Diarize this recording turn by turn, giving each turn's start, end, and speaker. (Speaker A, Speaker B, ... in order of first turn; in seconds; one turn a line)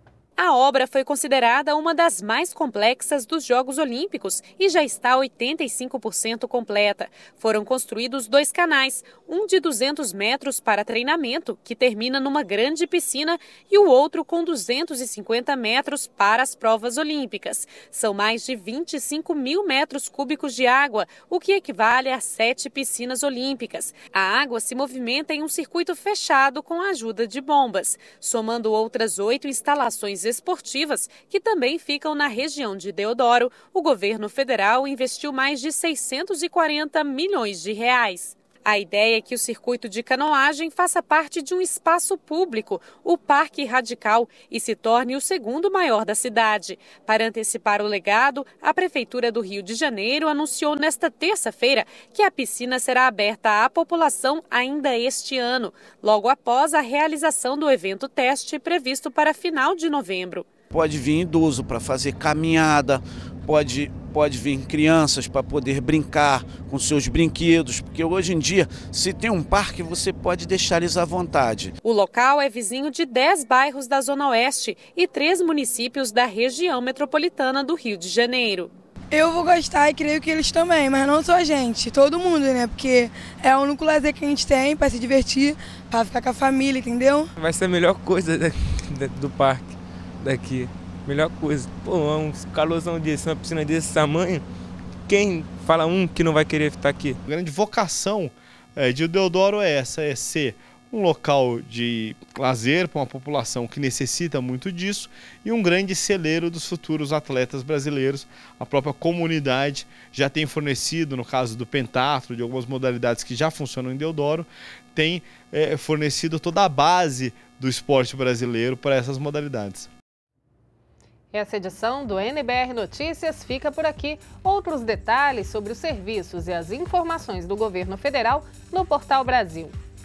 Speaker A: 0.4-60.5
Speaker B: 60.7-71.7
Speaker A: 71.8-78.7
Speaker C: 79.1-87.3
Speaker D: 87.4-94.4
Speaker D: 95.1-97.2
Speaker E: 97.3-119.9
Speaker F: 121.3-129.8